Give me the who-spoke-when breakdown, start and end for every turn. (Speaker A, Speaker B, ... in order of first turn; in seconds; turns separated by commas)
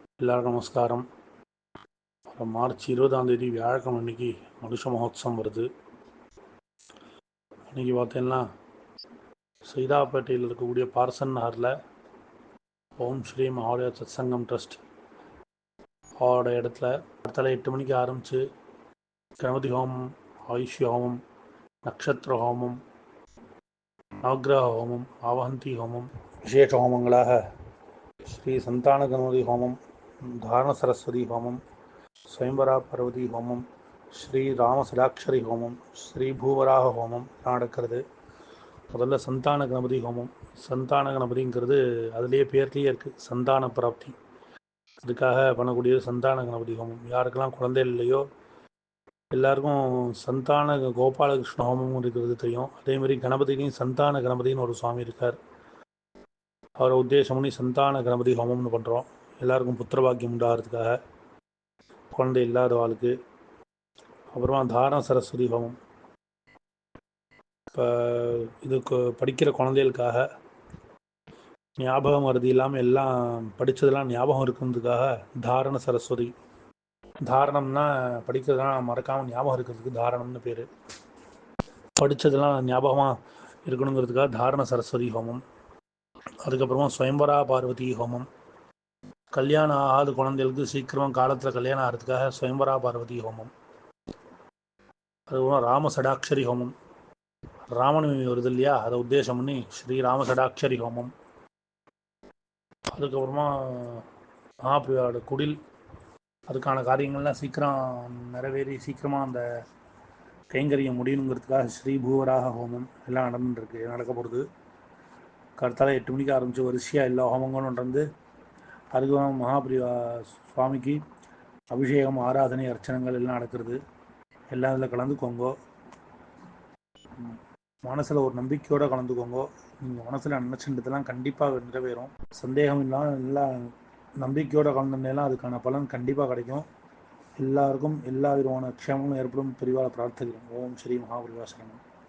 Speaker A: 0.2-1.1, Speaker A: 2.3-5.7, Speaker A: 7.7-8.5, Speaker A: 9.7-11.8, Speaker A: 13.0-14.8, Speaker A: 16.2-18.4, Speaker A: 19.4-21.2, Speaker A: 21.8-22.8, Speaker A: 24.2-27.4, Speaker A: 28.3-31.6, Speaker A: 32.3-38.0, Speaker A: 38.9-44.1, Speaker A: 45.0-48.3, Speaker A: 49.3-55.4, Speaker A: 56.8-61.0, Speaker A: 62.1-63.1, Speaker A: 64.3-65.8, Speaker A: 67.7-70.2, Speaker A: 71.8-76.3, Speaker A: 77.2-80.7, Speaker A: 82.0-85.4, Speaker A: 86.4-88.3, Speaker A: 89.3-93.5, Speaker A: 95.3-96.7, Speaker A: 97.7-101.1, Speaker A: 102.9-104.0, Speaker A: 104.7-105.6, Speaker A: 106.5-109.5, Speaker A: 110.5-114.5, Speaker A: 115.6-118.1, Speaker A: 118.9-121.0, Speaker A: 121.7-123.8, Speaker A: 124.5-125.5, Speaker A: 127.2-136.7, Speaker A: 137.4-141.8